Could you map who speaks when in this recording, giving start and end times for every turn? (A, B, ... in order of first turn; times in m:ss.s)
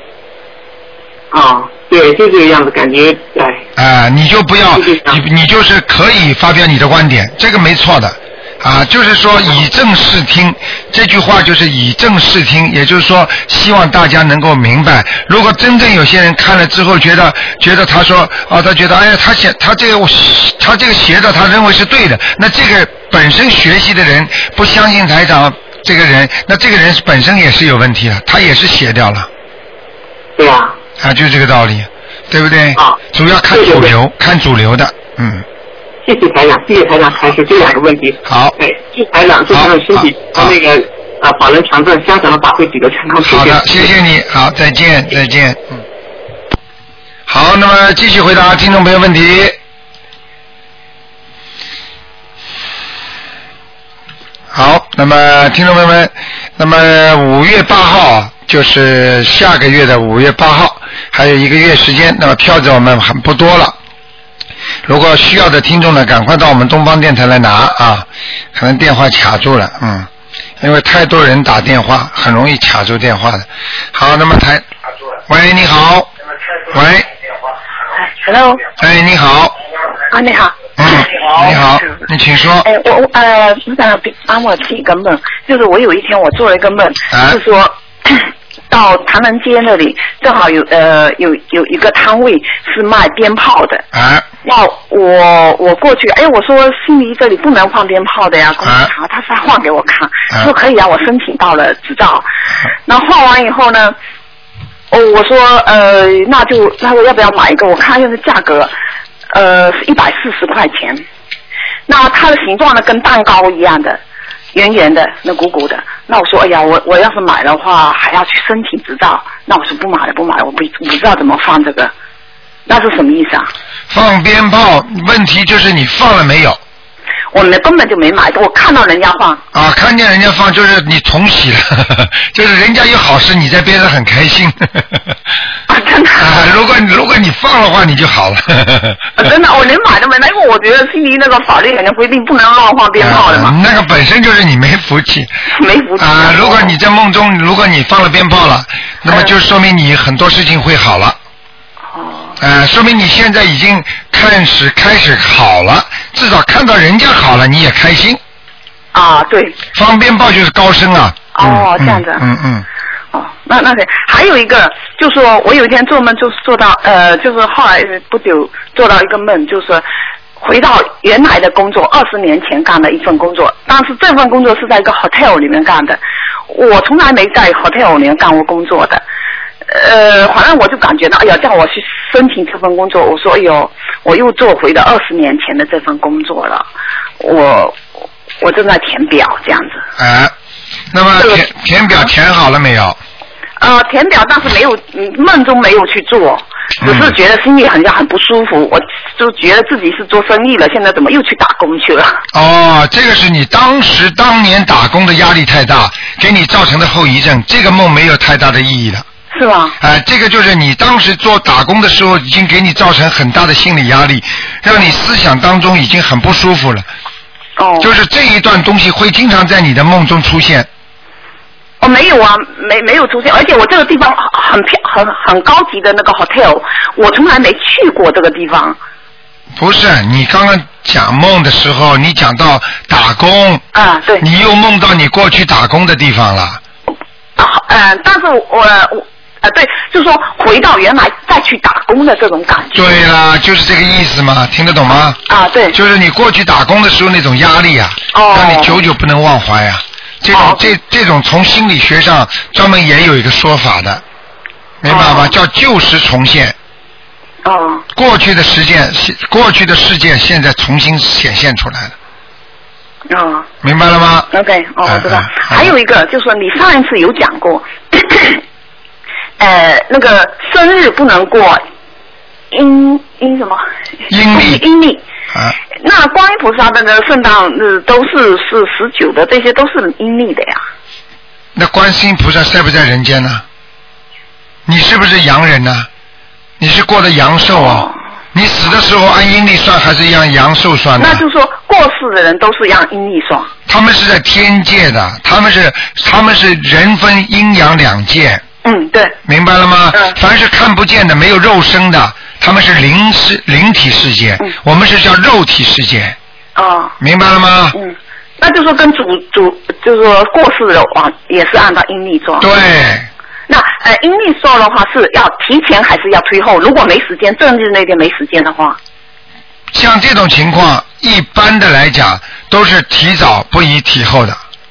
0:01.3-0:03.6 A
0:03.8-0:29.3 B
0:04.8-0:05.2 A
0:30.4-0:30.8 A
0:31.0-0:35.4 B
0:33.5-0:33.9 A
0:36.0-0:43.9 A
0:38.2-0:38.6 B
0:39.5-0:40.6 B
0:43.2-0:45.8 B
0:47.3-0:49.6 B
0:54.5-1:03.8 B
1:04.8-1:10.1 B
1:10.6-1:14.6 B
1:15.3-1:16.1 B
1:16.7-1:17.1 B
1:18.0-1:18.6 C
1:18.8-1:19.6 B
1:20.1-1:21.9 C
1:20.8-1:22.7 B
1:22.6-1:33.8 C
1:27.1-1:27.4 B
1:33.9-1:34.2 B
1:34.4-1:42.3 C
1:38.6-1:38.9 B
1:42.8-1:43.9 C
1:44.9-1:48.7 C
1:49.3-1:51.0 C
1:51.9-1:54.0 C
1:54.5-2:01.9 C
2:02.7-2:03.5 C
2:03.9-2:06.6 B
2:07.3-2:09.4 C
2:09.5-2:15.1 B
2:15.7-2:16.3 C
2:16.2-2:19.2 B
2:19.2-2:23.5 C
2:23.0-2:25.3 B
2:25.5-2:26.7 C
2:26.0-2:31.2 B
2:31.9-2:32.4 C
2:32.4-2:38.2 B
2:38.9-2:39.6 C
2:39.7-2:42.6 B
2:41.3-2:42.2 C
2:43.1-2:49.8 C
2:50.4-2:59.0 C
2:59.7-3:06.6 C
3:07.2-3:07.8 C
3:08.4-3:09.8 C
3:10.0-3:10.3 B
3:10.9-3:13.0 B
3:13.6-3:22.2 C
3:16.8-3:17.2 B
3:22.3-3:29.0 B
3:29.3-3:29.8 C
3:29.8-3:36.9 B
3:37.6-3:37.9 C
3:37.8-3:40.7 B
3:41.8-3:48.8 C
3:49.6-3:53.6 B
3:53.7-3:54.2 C
3:54.2-3:56.6 B
3:57.4-4:03.0 C
4:02.7-4:05.2 B
4:05.3-4:05.8 C
4:05.7-4:14.0 B
4:08.1-4:08.8 C
4:10.3-4:10.7 C
4:14.8-4:16.6 B
4:14.9-4:15.3 C
4:17.4-4:17.8 C
4:17.9-4:21.9 B
4:23.1-4:23.5 C
4:23.6-4:24.3 B
4:24.3-4:28.4 C
4:24.8-4:25.7 B
4:29.4-4:31.6 C
4:32.5-4:33.6 C
4:34.1-4:34.6 B
4:34.3-4:35.0 C
4:35.8-4:40.6 C
4:41.5-4:43.4 B
4:44.6-4:45.9 B
4:46.6-4:51.2 B
4:47.6-4:47.9 C
4:51.0-4:53.5 C
4:53.7-4:58.4 B
4:58.6-4:59.2 C
4:59.2-5:06.2 B
5:06.6-5:06.9 C
5:07.0-5:07.8 B
5:07.7-5:12.5 C
5:12.4-5:13.1 B
5:13.5-5:18.8 C
5:19.7-5:24.4 B